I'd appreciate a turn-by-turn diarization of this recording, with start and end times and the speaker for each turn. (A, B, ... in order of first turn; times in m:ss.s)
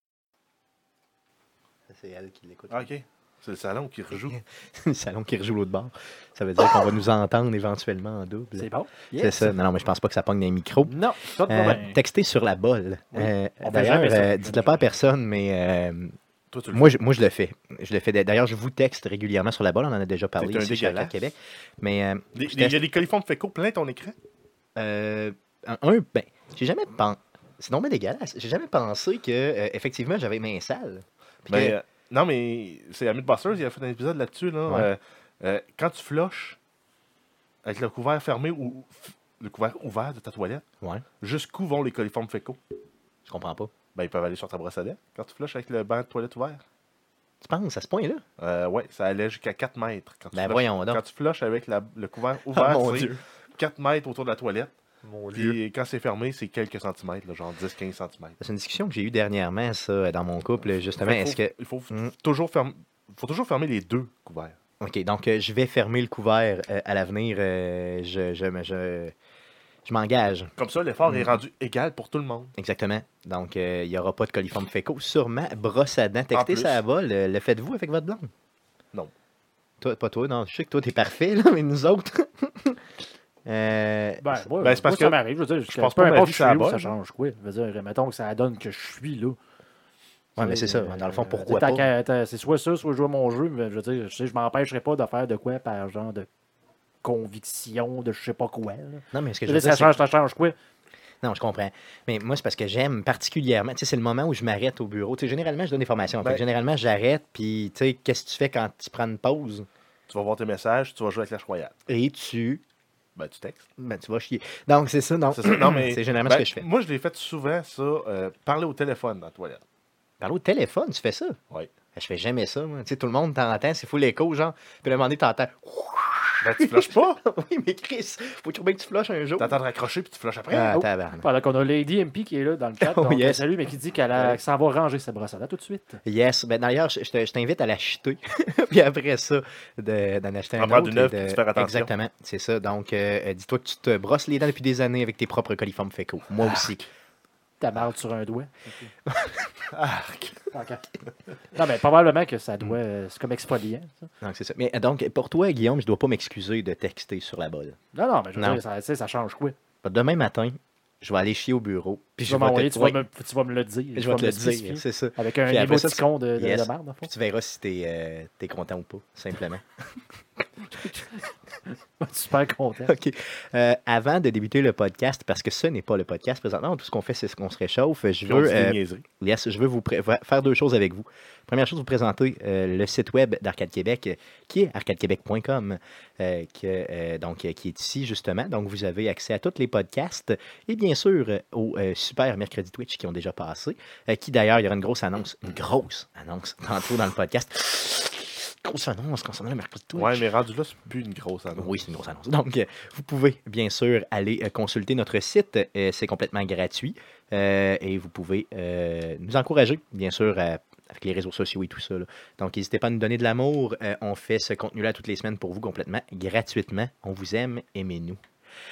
0:01.9-0:02.9 A
0:02.7-0:04.4 B
0:04.3-0:10.9 A
0:08.6-0:09.6 C
0:10.8-0:12.0 C
0:11.5-0:16.1 A
0:13.1-0:14.9 C
0:16.5-0:17.0 B
0:16.7-0:22.8 A
0:20.4-0:21.2 B
0:22.3-0:24.1 B
0:24.8-0:31.7 A
0:31.5-0:36.6 B
0:37.6-0:40.6 B
0:41.2-0:42.6 B
0:43.2-0:43.7 A
0:43.9-0:46.6 B
0:47.4-0:48.2 A
0:48.4-0:58.4 B
0:50.3-0:51.0 A
0:52.5-0:53.2 A
0:58.4-1:02.1 A
1:00.9-1:04.5 B
1:04.8-1:09.1 A
1:09.8-1:10.5 A
1:10.6-1:12.5 B
1:11.1-1:11.4 A
1:12.6-1:18.3 A
1:16.3-1:16.8 B
1:19.8-1:22.8 A
1:23.4-1:24.5 A
1:24.2-1:29.4 C
1:24.6-1:26.9 B
1:30.4-1:31.9 A
1:30.4-1:36.3 C
1:37.0-1:40.6 C
1:39.1-1:40.0 A
1:41.2-1:49.7 A
1:50.1-1:51.7 B
1:51.9-1:52.6 A
1:53.2-1:53.7 B
1:53.8-1:56.6 A
1:55.3-1:59.6 B
2:00.2-2:01.4 A
2:01.9-2:09.6 A
2:06.4-2:07.2 B
2:09.4-2:10.9 B
2:10.5-2:11.2 A
2:11.2-2:16.0 C
2:12.8-2:13.4 A
2:14.1-2:14.4 A
2:16.0-2:26.9 A
2:20.6-2:21.9 B
2:27.6-2:28.9 C
2:29.1-2:29.6 A
2:29.7-2:30.4 B
2:30.5-2:30.8 C
2:31.5-2:34.1 C
2:34.2-2:37.8 A
2:37.9-2:39.6 C
2:38.4-2:38.6 A
2:39.8-2:43.0 A
2:42.3-2:47.1 C
2:43.9-2:49.6 A
2:50.7-2:51.0 A
2:52.0-2:52.9 C
2:52.8-3:20.3 A
2:58.2-2:59.0 B
3:20.0-3:21.8 B
3:21.6-3:38.2 A